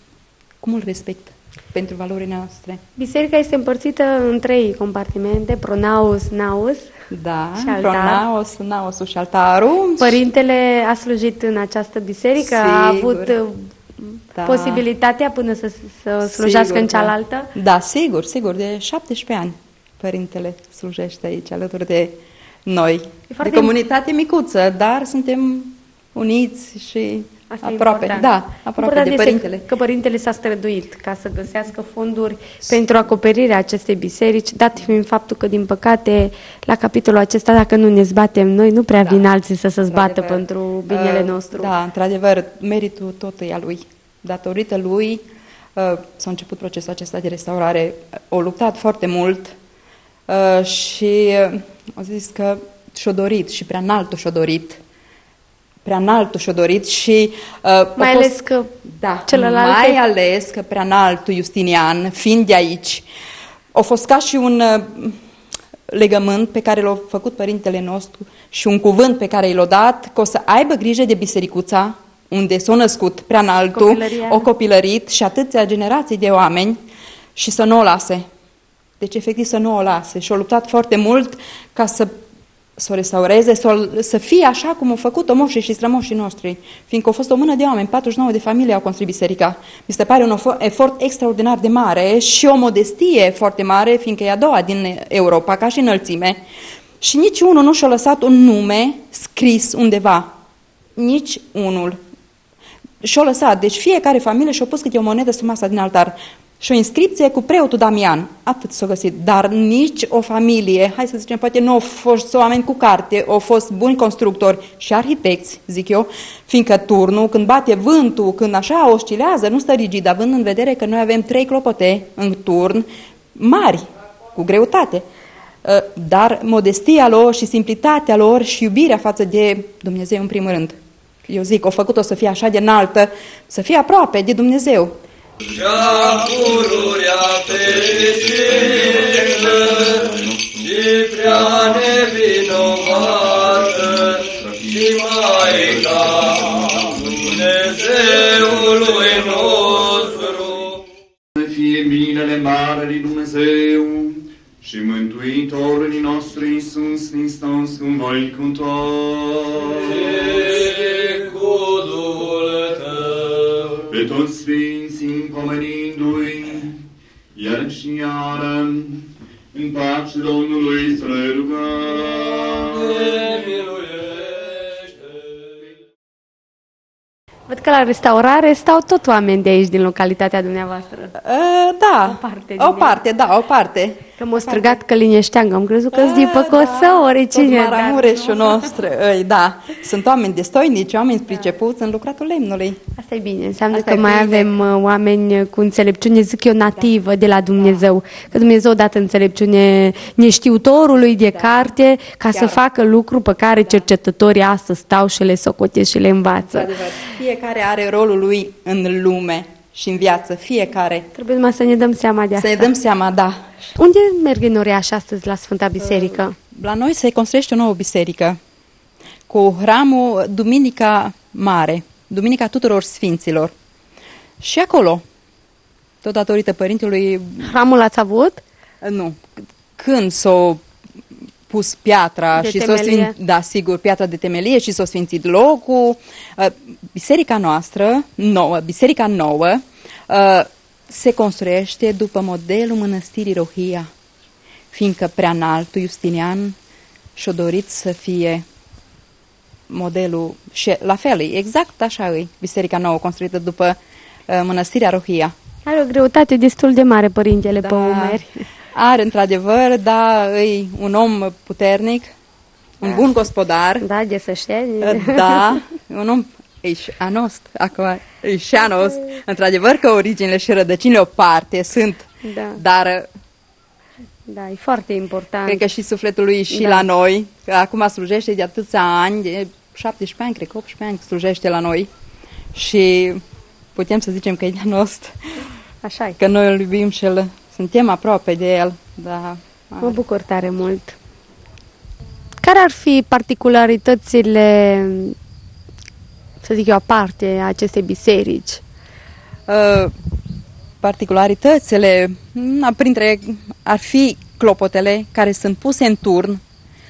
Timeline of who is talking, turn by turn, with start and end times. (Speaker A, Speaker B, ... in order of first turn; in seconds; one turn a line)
Speaker A: 0.6-2.8
Speaker B: 3.0-6.9
Speaker A: 7.1-10.2
Speaker B: 7.5-8.2
Speaker B: 10.0-17.5
Speaker A: 12.4-13.3
Speaker A: 14.3-14.8
Speaker A: 16.2-29.6
Speaker B: 23.3-23.7
Speaker B: 27.5-41.7
Speaker A: 39.0-39.3
Speaker A: 39.9-45.2
Speaker A: 45.8-49.5
Speaker A: 50.3-54.8
Speaker A: 55.8-58.3
Speaker B: 58.0-58.7
Speaker A: 58.9-63.0
Speaker B: 59.3-60.0
Speaker A: 63.7-65.2
Speaker A: 65.9-76.8
Speaker B: 73.7-74.5
Speaker A: 77.3-78.2
Speaker A: 79.0-82.1
Speaker A: 82.8-96.4
Speaker A: 97.0-100.3
Speaker A: 101.0-102.0
Speaker A: 103.0-125.0
Speaker A: 125.6-135.0
Speaker C: 135.4-150.7
Speaker D: 135.5-139.7
Speaker D: 140.7-146.8
Speaker D: 147.3-150.6
Speaker C: 151.3-160.7
Speaker D: 159.9-163.5
Speaker C: 163.9-166.7
Speaker C: 167.3-173.2
Speaker D: 172.8-174.2
Speaker B: 177.5-181.1
Speaker A: 181.2-184.8
Speaker B: 182.0-183.0
Speaker B: 184.2-188.6
Speaker A: 185.9-192.8
Speaker B: 192.9-206.7
Speaker A: 193.7-194.5
Speaker A: 201.3-201.7
Speaker A: 202.3-202.6
Speaker A: 206.4-211.1
Speaker B: 211.1-212.7
Speaker A: 212.3-213.5
Speaker B: 213.8-216.3
Speaker A: 216.5-218.4
Speaker A: 219.3-223.5
Speaker A: 224.4-225.0
Speaker A: 226.0-227.5
Speaker B: 227.4-228.4
Speaker A: 228.8-229.2
Speaker A: 229.8-230.6
Speaker A: 231.5-243.9
Speaker B: 232.3-233.1
Speaker A: 244.7-246.5
Speaker A: 247.2-248.4
Speaker A: 249.7-253.8
Speaker A: 254.3-255.3
Speaker B: 255.6-258.4
Speaker A: 257.6-258.2
Speaker A: 258.7-262.1
Speaker A: 262.8-263.8
Speaker B: 263.8-265.6
Speaker A: 264.8-273.1
Speaker B: 272.2-272.6
Speaker B: 274.3-275.6
Speaker A: 275.4-281.9
Speaker B: 276.5-276.8
Speaker A: 282.5-283.2
Speaker A: 283.7-285.4
Speaker B: 285.8-286.2
Speaker A: 286.2-289.9
Speaker B: 289.8-290.9
Speaker B: 292.4-295.1
Speaker B: 296.4-298.6
Speaker A: 299.5-299.9
Speaker A: 300.8-306.4